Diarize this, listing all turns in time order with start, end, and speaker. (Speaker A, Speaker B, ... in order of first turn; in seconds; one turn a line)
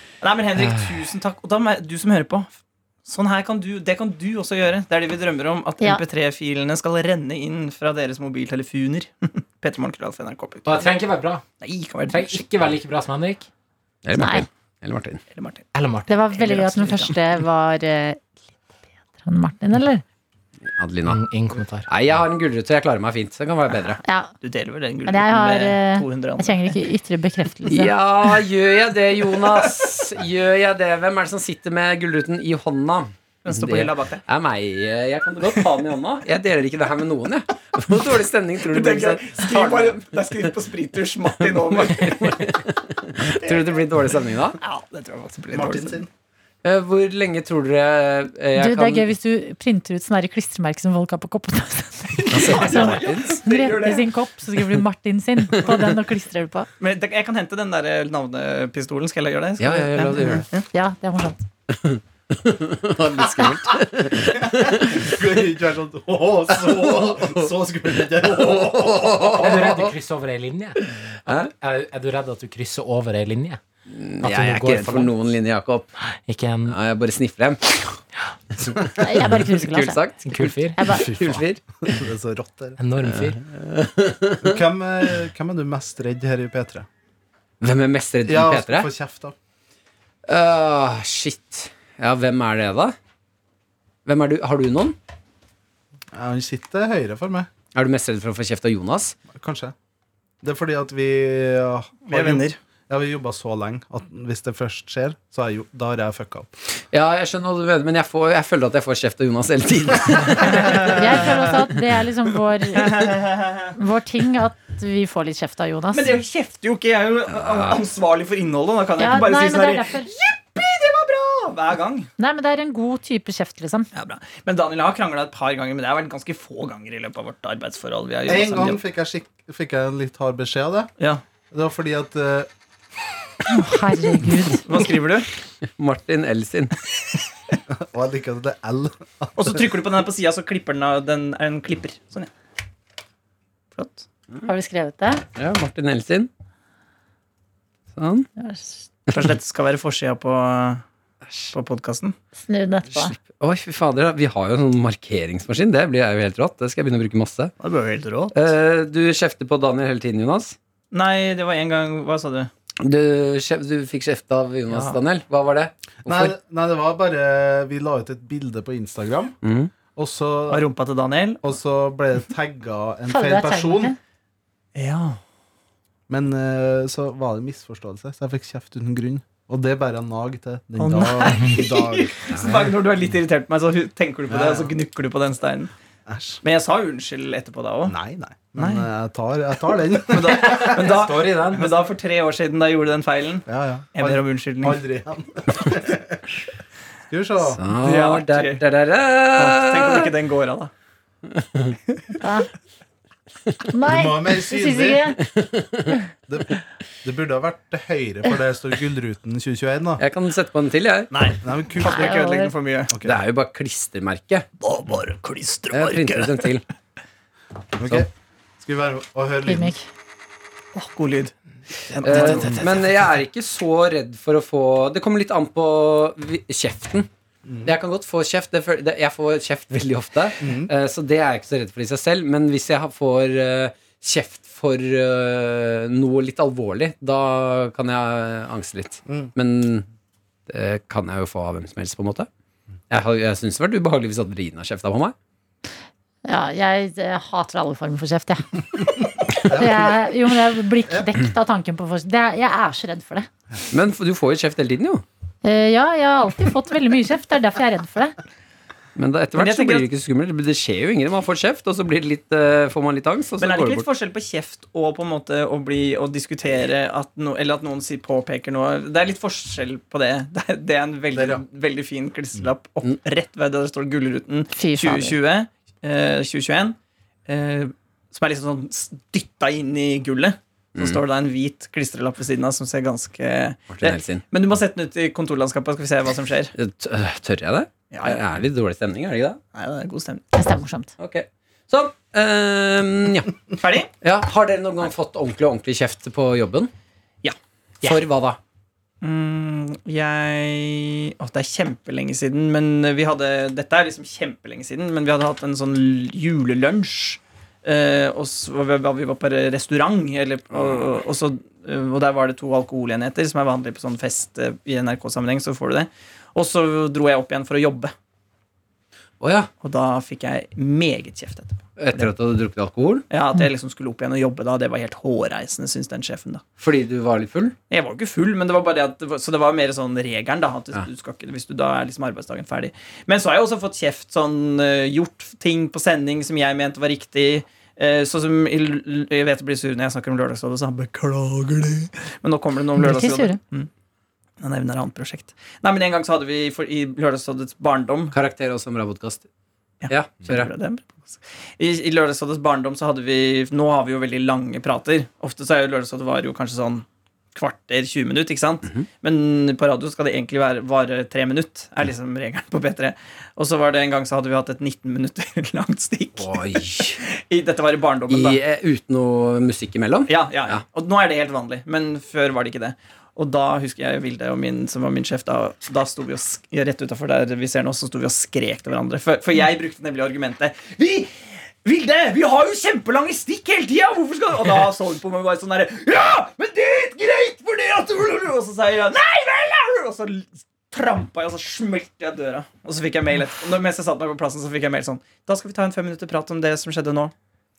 Speaker A: 0.2-2.5
Speaker B: 0.6-0.9
Speaker A: 3.0-11.0
Speaker C: 10.7-11.4
Speaker A: 11.6-12.5
Speaker C: 12.1-13.5
Speaker B: 14.0-15.2
Speaker D: 14.1-14.5
Speaker A: 15.3-15.7
Speaker C: 15.7-16.1
Speaker D: 16.1-18.2
Speaker A: 16.4-17.1
Speaker D: 19.2-20.0
Speaker B: 20.7-21.3
Speaker C: 21.1-21.9
Speaker B: 21.9-24.0
Speaker D: 24.1-24.3
Speaker A: 24.4-26.7
Speaker D: 25.1-27.9
Speaker B: 27.7-40.1
Speaker A: 29.3-29.8
Speaker A: 33.5-34.2
Speaker A: 38.7-42.6
Speaker B: 41.5-44.6
Speaker A: 43.4-43.8
Speaker A: 44.6-46.0
Speaker E: 45.5-46.1
Speaker B: 46.6-49.1
Speaker D: 48.6-56.7
Speaker A: 52.2-54.1
Speaker B: 52.3-53.5
Speaker A: 56.8-60.7
Speaker B: 59.6-60.5
Speaker D: 60.7-61.5
Speaker B: 61.7-65.0
Speaker E: 64.1-69.5
Speaker B: 66.6-67.5
Speaker B: 68.2-69.9
Speaker C: 69.4-73.6
Speaker B: 71.3-71.5
Speaker B: 73.9-75.9
Speaker C: 74.2-75.1
Speaker C: 76.3-76.8
Speaker B: 76.7-78.0
Speaker B: 78.6-81.6
Speaker D: 79.0-80.0
Speaker C: 80.2-80.8
Speaker D: 80.8-81.0
Speaker E: 81.0-82.8
Speaker C: 82.8-83.4
Speaker B: 83.0-84.6
Speaker E: 84.4-86.9
Speaker B: 87.6-88.9
Speaker E: 88.3-89.3
Speaker B: 90.3-93.0
Speaker B: 94.1-95.0
Speaker E: 96.2-97.5
Speaker B: 97.7-99.2
Speaker E: 99.3-99.7
Speaker E: 100.4-106.5
Speaker A: 102.1-102.6
Speaker B: 106.9-111.3
Speaker D: 110.8-113.1
Speaker A: 112.8-113.7
Speaker D: 113.8-116.1
Speaker A: 115.9-122.1
Speaker B: 117.3-117.8
Speaker D: 119.0-120.1
Speaker D: 122.2-123.9
Speaker A: 123.9-128.8
Speaker E: 128.3-130.9
Speaker E: 131.5-132.5
Speaker D: 133.5-134.7
Speaker A: 134.7-135.3
Speaker B: 135.8-136.7
Speaker E: 137.8-139.6
Speaker A: 139.4-142.3
Speaker A: 143.8-144.1
Speaker D: 144.5-145.2
Speaker B: 145.3-146.3
Speaker B: 147.9-148.3
Speaker D: 148.4-148.8
Speaker A: 149.1-150.8
Speaker A: 151.5-152.2
Speaker D: 152.4-153.2
Speaker B: 152.9-157.5
Speaker A: 157.6-158.4
Speaker B: 158.3-160.6
Speaker A: 160.9-162.5
Speaker B: 162.8-166.4
Speaker A: 164.7-165.0
Speaker E: 166.1-169.4
Speaker B: 169.4-169.7
Speaker E: 169.9-170.6
Speaker A: 170.5-171.4
Speaker E: 171.4-173.9
Speaker D: 173.1-174.0
Speaker A: 174.8-175.2
Speaker E: 176.1-182.6
Speaker A: 180.8-185.7
Speaker E: 184.3-184.7
Speaker E: 186.1-186.4
Speaker A: 186.4-187.9
Speaker E: 187.9-191.7
Speaker A: 188.6-188.9
Speaker A: 190.1-194.8
Speaker C: 190.8-191.7
Speaker E: 193.5-196.2
Speaker E: 197.1-197.6
Speaker B: 197.4-200.1
Speaker A: 197.8-198.6
Speaker A: 199.4-200.7
Speaker B: 201.4-201.8
Speaker D: 202.2-202.5
Speaker D: 203.7-205.2
Speaker E: 203.8-205.2
Speaker B: 205.4-205.9
Speaker E: 206.3-210.0
Speaker B: 210.0-211.1
Speaker A: 211.1-212.9
Speaker E: 211.4-212.2
Speaker D: 211.8-212.5
Speaker E: 212.9-213.2
Speaker B: 213.0-214.5
Speaker A: 214.6-216.5
Speaker B: 215.7-216.7
Speaker E: 217.8-218.1
Speaker E: 218.6-219.8
Speaker D: 219.5-219.8
Speaker A: 220.7-221.3
Speaker A: 221.9-222.7
Speaker B: 222.0-227.1
Speaker E: 227.4-227.8
Speaker B: 227.7-239.8
Speaker E: 230.4-230.7
Speaker E: 239.1-239.3
Speaker B: 240.5-242.3
Speaker B: 242.9-245.1
Speaker D: 246.2-248.8
Speaker E: 249.4-250.0
Speaker D: 249.4-253.3
Speaker B: 253.7-255.0
Speaker D: 255.4-258.2
Speaker B: 259.0-263.9
Speaker A: 259.4-259.9
Speaker A: 263.4-276.8
Speaker E: 271.1-271.4
Speaker D: 274.5-275.1
Speaker A: 277.3-286.5
Speaker B: 283.7-284.2
Speaker B: 286.6-289.4
Speaker A: 287.9-288.2
Speaker A: 289.5-290.3
Speaker D: 290.3-290.9
Speaker B: 291.0-293.3
Speaker A: 293.6-293.9
Speaker B: 294.0-296.7
Speaker B: 297.8-298.4
Speaker A: 299.0-317.9
Speaker B: 319.2-319.5
Speaker A: 319.6-322.1
Speaker B: 321.8-323.1
Speaker A: 323.1-326.4
Speaker B: 326.6-327.6
Speaker A: 327.7-343.7
Speaker D: 342.8-343.4
Speaker A: 344.4-348.1
Speaker B: 348.1-349.2
Speaker A: 349.8-368.4
Speaker B: 349.9-350.5
Speaker B: 366.2-367.0
Speaker B: 368.1-370.6
Speaker A: 370.1-397.1